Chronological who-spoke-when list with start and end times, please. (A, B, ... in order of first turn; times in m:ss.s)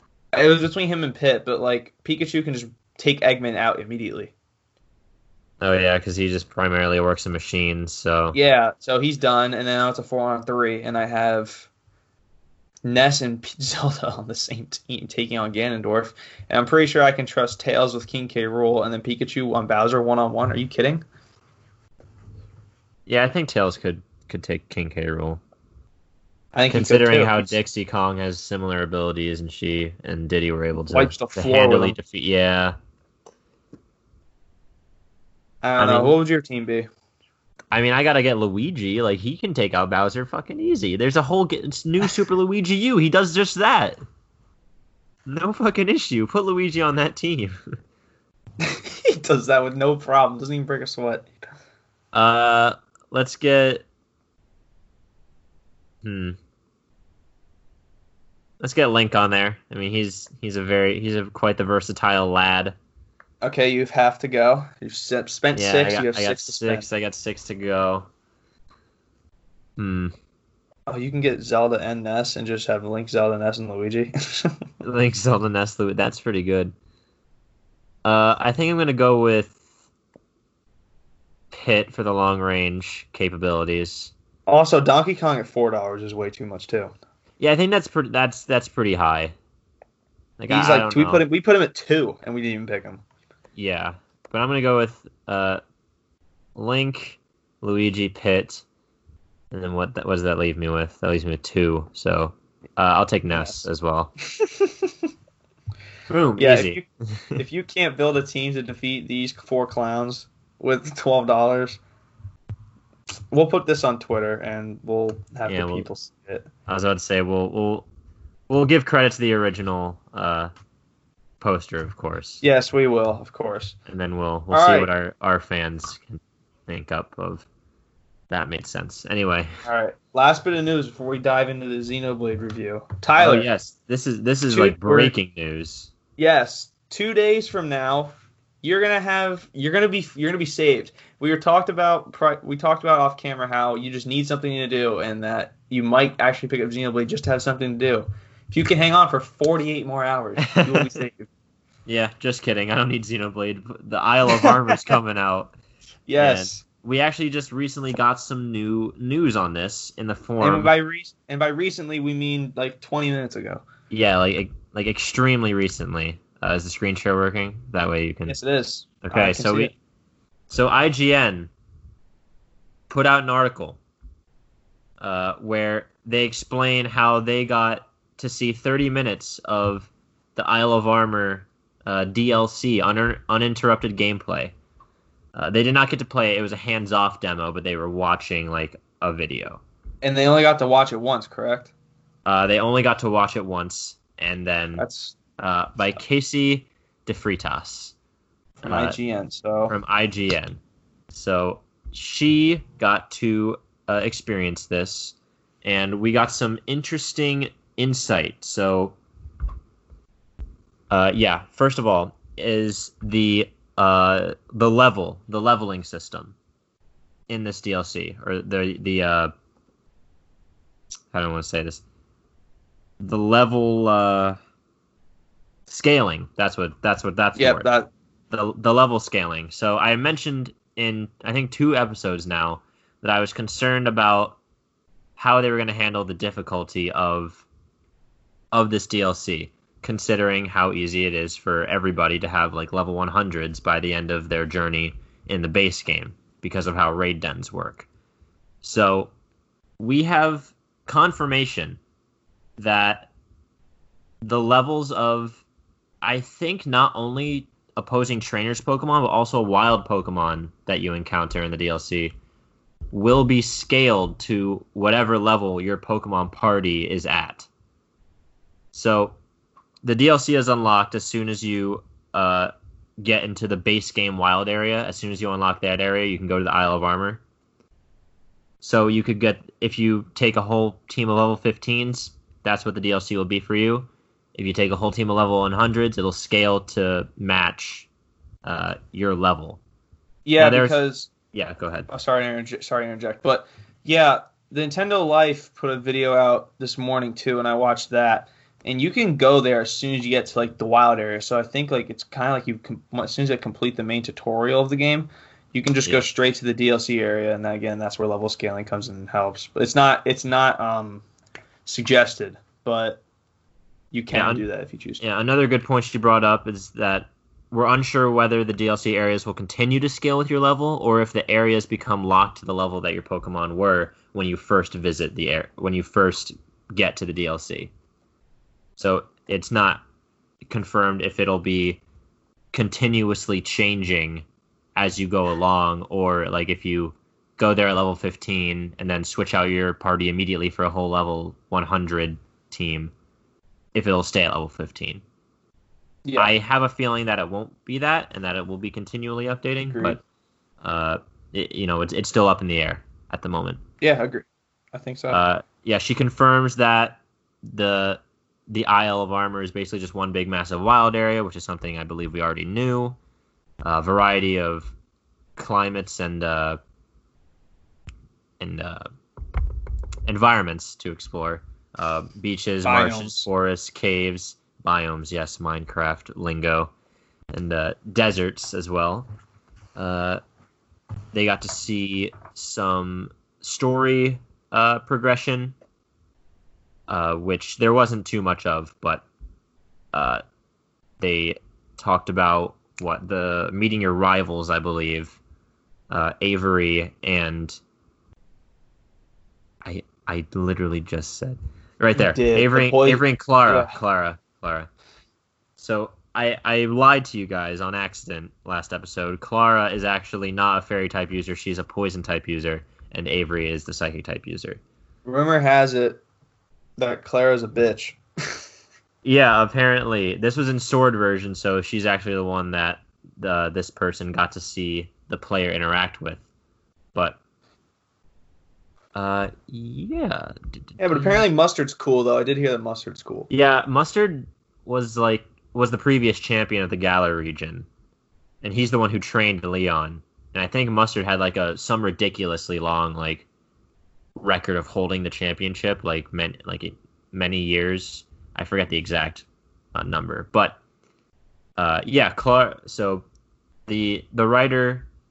0:00.3-0:04.3 A
0:05.6-0:08.4 B
0:08.3-0:11.7 A
0:12.8-0:21.0 A
0:23.0-0:25.4 B
0:26.5-0:27.6 A
0:26.7-0:32.7 B
0:30.9-0:32.0 A
0:35.6-0:36.9 A
0:35.8-0:36.2 B
0:37.7-0:44.0 B
0:45.2-0:47.8 B
0:48.6-0:51.3 A
0:52.1-0:53.8 B
0:56.0-0:56.4 B
0:58.6-1:02.7 B
1:03.4-1:06.8 A
1:05.5-1:08.1 B
1:09.8-1:10.1 B
1:10.9-1:14.5 A
1:14.8-1:16.7 B
1:18.0-1:19.6 B
1:21.5-1:24.1 B
1:24.5-1:26.9 A
1:27.4-1:29.3 B
1:30.4-1:31.2 B
1:30.5-1:33.0 A
1:33.6-1:35.6 B
1:36.5-1:38.6 B
1:39.5-1:44.1 B
1:43.3-1:43.6 A
1:44.4-1:44.9 A
1:46.1-1:47.4 B
1:46.4-1:46.8 A
1:47.3-1:51.8 A
1:53.3-1:56.4 A
1:55.5-1:55.9 B
1:56.7-1:57.9 B
1:58.5-2:00.5 B
2:01.4-2:02.4 B
2:02.4-2:03.8 A
2:03.9-2:07.5 B
2:04.5-2:04.9 A
2:08.3-2:09.5 B
2:09.6-2:13.5 A
2:13.2-2:15.9 B
2:14.5-2:15.1 A
2:16.2-2:31.3 A
2:30.5-2:30.9 B
2:31.8-2:35.5 B
2:34.3-2:35.0 A
2:36.1-2:36.6 A
2:36.2-2:40.7 B
2:40.4-2:43.6 A
2:43.9-2:48.4 B
2:48.2-2:49.7 A
2:49.0-2:49.7 B
2:50.5-2:51.5 B
2:52.9-2:53.8 B
2:55.0-3:04.5 B
3:05.3-3:09.6 B
3:10.0-3:11.7 A
3:12.2-3:14.8 B
3:14.8-3:15.2 A
3:15.4-3:17.9 B
3:18.6-3:19.7 A
3:18.6-3:19.0 B
3:19.7-3:20.6 B
3:21.1-3:29.0 B
3:30.9-3:36.3 B
3:37.3-3:39.3 B
3:41.1-3:41.8 B
3:43.0-3:44.4 B
3:45.7-3:47.7 B
3:47.4-3:47.9 A
3:48.3-3:54.4 B
3:55.2-3:57.4 B
3:58.5-4:07.9 B
4:08.6-4:09.1 B
4:09.8-4:11.8 B
4:12.6-4:13.1 B
4:14.2-4:15.4 B
4:16.0-4:22.1 B
4:22.9-4:27.5 B
4:28.7-4:29.2 B
4:29.8-4:37.2 B
4:38.6-4:47.9 B
4:48.4-4:49.6 B
4:50.2-4:51.1 A
4:50.4-4:50.8 B
4:51.3-4:51.9 B
4:51.9-5:11.0 A
5:11.6-5:13.0 A
5:13.9-5:15.0 A
5:14.1-5:14.4 B
5:15.0-5:27.7 B
5:28.8-5:29.8 B
5:30.4-5:31.8 B
5:32.5-5:42.9 B
5:43.7-5:45.0 B
5:46.0-5:46.3 A
5:46.2-5:50.0 B
5:49.6-5:50.0 A
5:50.6-5:53.6 B
5:53.8-5:55.2 A
5:55.1-6:03.0 B
6:03.6-6:04.7 B
6:05.4-6:06.6 B
6:08.4-6:08.8 B
6:10.0-6:16.7 B
6:12.6-6:13.2 A
6:17.3-6:19.1 B
6:19.7-6:20.2 B
6:21.1-6:25.5 B
6:26.9-6:29.0 B
6:29.9-6:30.2 B
6:31.0-6:35.2 B
6:35.9-6:37.6 B
6:39.6-6:44.7 B
6:41.9-6:43.7 A
6:45.6-6:54.6 B
6:55.0-6:56.0 A
6:56.8-6:58.4 A
6:59.0-7:06.2 B
7:08.9-7:11.2 B
7:10.8-7:13.3 A
7:13.3-7:17.7 B
7:18.4-7:23.2 B
7:24.2-7:30.6 B
7:31.6-7:33.1 B
7:33.7-7:34.9 B